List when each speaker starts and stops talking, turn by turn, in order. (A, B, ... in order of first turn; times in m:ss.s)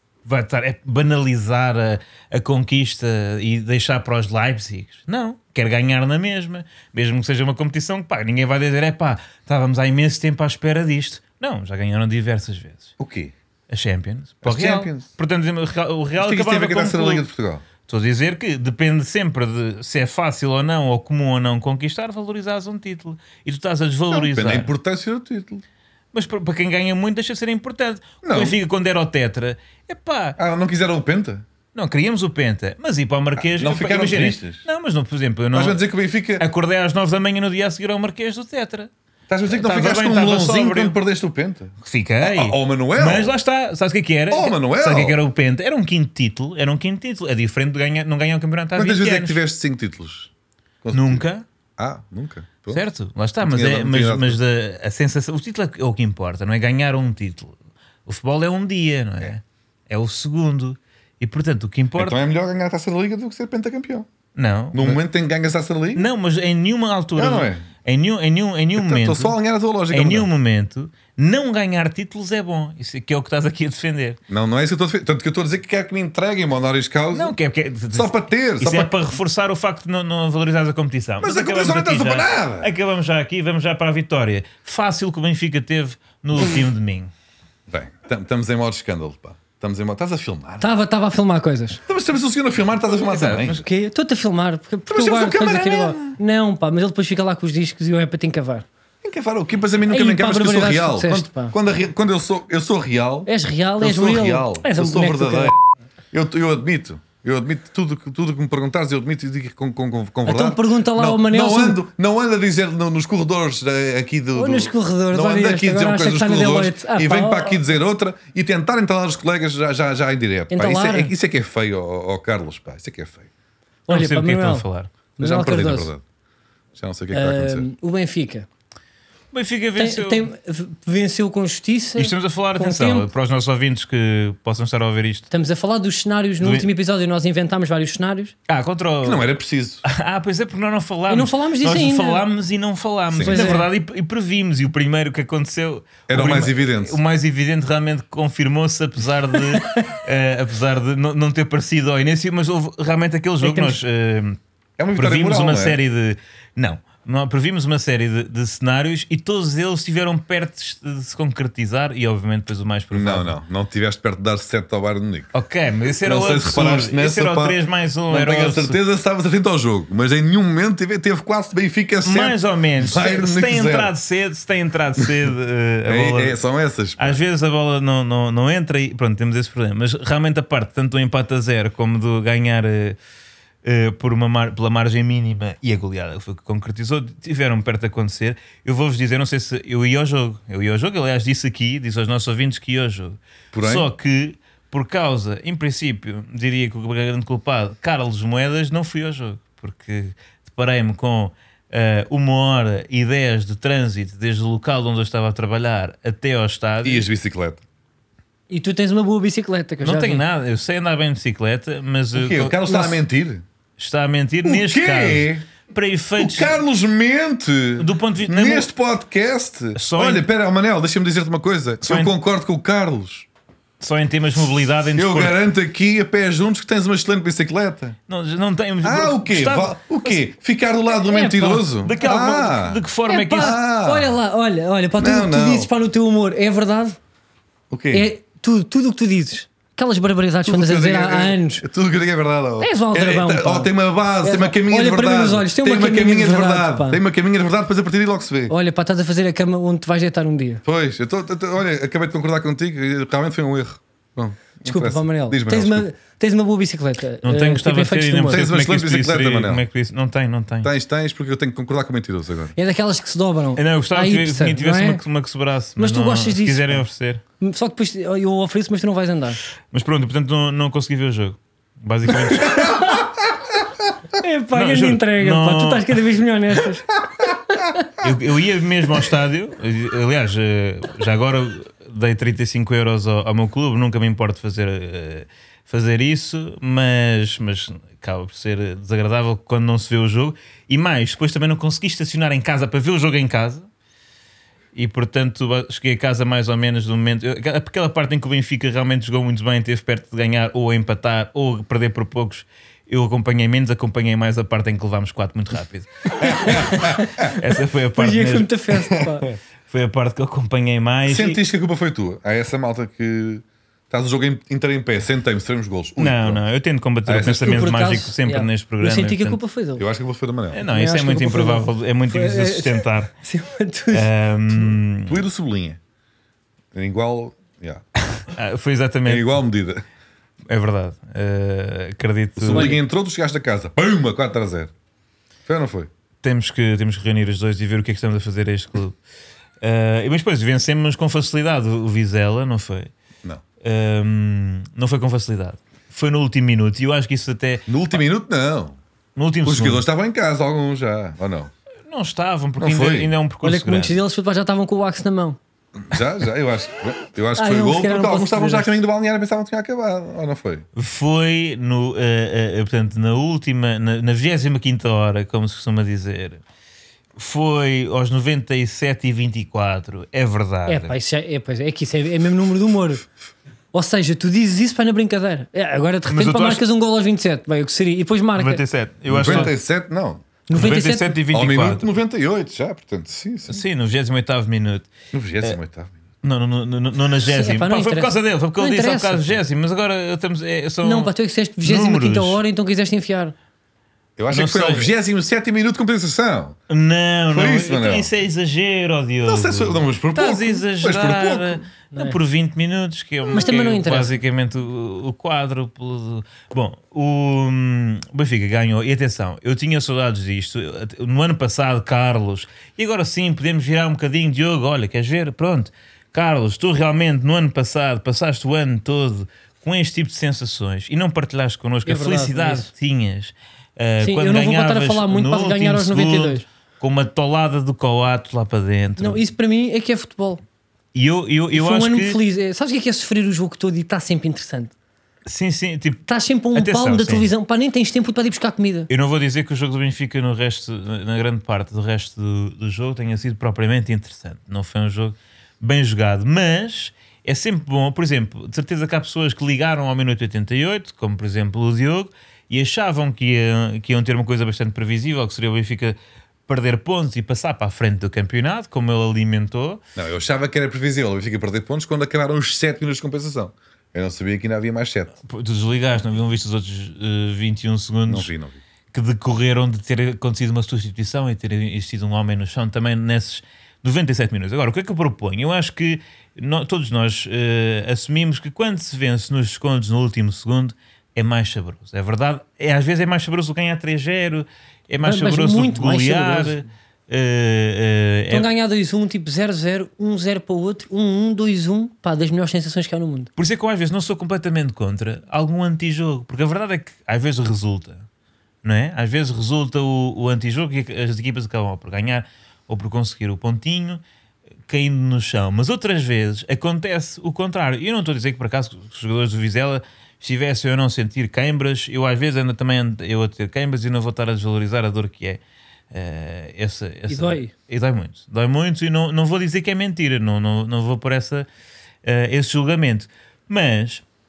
0:00.2-0:12.9 A
0:13.0-0:13.3 B
0:13.7-0:17.2 A
0:14.4-0:15.1 B
0:16.2-0:17.6 B
0:17.9-0:24.7 A
0:24.1-0:25.6 B
0:26.1-0:30.4 A
0:28.2-0:28.6 B
0:30.4-0:31.4 B
0:31.8-0:35.8 A
0:33.4-0:34.6 B
0:35.5-0:36.4 B
0:36.4-0:38.9 A
0:39.3-0:43.4 B
0:39.5-0:41.0 A
0:41.8-0:49.4 A
0:44.3-0:45.2 B
0:48.8-0:50.3 B
0:50.8-0:51.2 B
0:50.9-0:51.4 A
0:51.8-0:52.8 B
0:52.7-0:57.6 A
0:53.4-0:54.4 B
0:58.1-1:02.2 A
1:02.0-1:04.1 B
1:04.4-1:05.0 A
1:04.7-1:06.1 B
1:06.0-1:09.4 A
1:07.2-1:07.7 B
1:08.8-1:10.3 B
1:09.9-1:14.2 A
1:14.3-1:17.4 B
1:17.1-1:27.1 A
1:17.9-1:19.0 B
1:21.2-1:22.7 B
1:27.7-1:30.7 B
1:30.6-1:31.8 C
1:31.9-1:33.6 B
1:33.1-1:33.6 A
1:33.5-1:38.7 C
1:34.9-1:36.2 B
1:39.0-1:45.6 B
1:39.9-1:41.5 C
1:43.3-1:45.5 C
1:46.1-2:03.3 B
1:50.3-1:51.8 C
1:54.3-1:57.6 C
2:00.5-2:01.1 C
2:03.9-2:04.7 C
2:03.9-2:04.9 A
2:05.2-2:05.9 C
2:05.2-2:06.0 B
2:06.8-2:07.7 B
2:07.1-2:08.5 C
2:09.3-2:10.3 A
2:09.8-2:13.1 C
2:12.0-2:15.3 A
2:15.3-2:18.3 C
2:16.4-2:16.7 A
2:18.5-2:19.3 A
2:19.0-2:19.8 B
2:19.8-2:34.4 A
2:21.1-2:22.2 C
2:23.1-2:23.5 B
2:23.2-2:23.7 C
2:26.1-2:27.0 B
2:29.4-2:29.9 C
2:33.4-2:33.8 C
2:34.8-2:35.8 B
2:35.0-2:43.4 A
2:42.9-2:45.3 B
2:45.3-2:48.8 A
2:46.0-2:47.6 B
2:48.1-2:53.9 B
2:52.0-2:56.4 A
2:55.9-2:57.2 B
2:57.0-3:03.0 A
3:03.6-3:27.1 A
3:13.5-3:13.9 B
3:26.8-3:27.6 B
3:28.5-3:30.2 C
3:29.8-3:32.6 A
3:32.1-3:33.4 B
3:32.7-3:33.0 C
3:33.8-3:36.6 A
3:34.4-3:35.5 B
3:36.2-3:43.3 B
3:37.8-3:38.7 A
3:39.8-3:40.3 A
3:41.8-3:42.1 A
3:43.8-3:45.4 A
3:45.0-3:48.0 B
3:48.1-3:49.8 A
3:48.8-3:54.1 B
3:50.9-3:51.7 C
3:51.8-3:53.6 A
3:53.1-3:57.0 C
3:55.0-3:55.7 B
3:57.7-3:58.1 B
3:57.9-4:01.6 C
4:00.4-4:08.5 B
4:02.6-4:07.0 C
4:08.5-4:10.6 C
4:10.6-4:15.9 B
4:14.6-4:18.5 C
4:17.2-4:20.7 A
4:18.3-4:19.6 B
4:20.6-4:22.6 B
4:22.6-4:25.0 C
4:23.6-4:27.2 A
4:25.8-4:26.8 C
4:27.4-4:29.4 C
4:29.7-4:32.9 A
4:32.4-4:33.0 C
4:34.2-4:37.9 C
4:34.5-4:36.0 A
4:38.0-4:53.7 A
4:54.7-5:08.5 A
5:06.2-5:07.4 B
5:06.3-5:07.1 C
5:08.0-5:09.3 C
5:09.0-5:09.3 B
5:09.7-5:11.4 A
5:11.1-5:16.4 B
5:16.0-5:19.4 A
5:17.1-5:17.7 B
5:17.3-5:19.8 C
5:19.8-5:20.6 B
5:20.5-5:23.1 A
5:20.7-5:24.1 C
5:23.9-5:25.2 A
5:25.1-5:25.8 B
5:26.7-5:27.8 B
5:28.3-5:29.4 A
5:29.1-5:29.8 B
5:30.5-5:32.8 A
5:32.4-5:34.7 B
5:32.5-5:32.8 C
5:35.5-5:35.9 B
5:36.2-5:39.0 A
5:39.6-5:42.9 A
5:43.6-5:47.7 A
5:47.7-5:48.8 B
5:49.2-5:49.8 A
5:49.4-5:51.5 B
5:51.9-5:54.0 A
5:52.6-5:53.1 B
5:53.4-5:55.4 C
5:55.8-6:00.7 B
5:57.4-5:58.8 C
6:00.8-6:06.4 A
6:07.2-6:11.0 A
6:10.7-6:13.0 C
6:13.7-6:18.6 C
6:16.1-6:16.6 A
6:18.4-6:19.6 A
6:19.1-6:20.2 B
6:20.5-6:21.2 C
6:20.5-6:21.9 A
6:21.3-6:23.6 B
6:23.5-6:24.9 A
6:25.1-6:26.0 B
6:26.2-6:31.1 A
6:27.3-6:29.4 C
6:30.8-6:33.3 C
6:31.6-6:32.4 A
6:34.2-6:36.6 B
6:34.3-6:34.9 A
6:36.7-7:09.2 A
6:37.3-6:38.1 B
6:39.2-6:41.6 B
6:41.9-6:42.2 C
6:43.3-6:44.2 C
7:01.9-7:02.7 C
7:04.0-7:06.4 C
7:09.0-7:10.4 C
7:10.9-7:12.2 A
7:11.5-7:14.7 C
7:15.3-7:17.3 A
7:16.1-7:18.9 C
7:18.9-7:36.0 A
7:36.5-7:39.8 A
7:40.0-7:45.1 B
7:45.3-7:48.3 A
7:48.1-7:48.6 B
7:48.9-8:08.5 A
8:05.0-8:06.6 C
8:08.3-8:13.3 C
8:13.4-8:18.0 A
8:18.6-8:24.0 A
8:24.7-8:35.4 A
8:35.9-8:41.5 A
8:37.1-8:37.5 C
8:42.0-8:44.0 A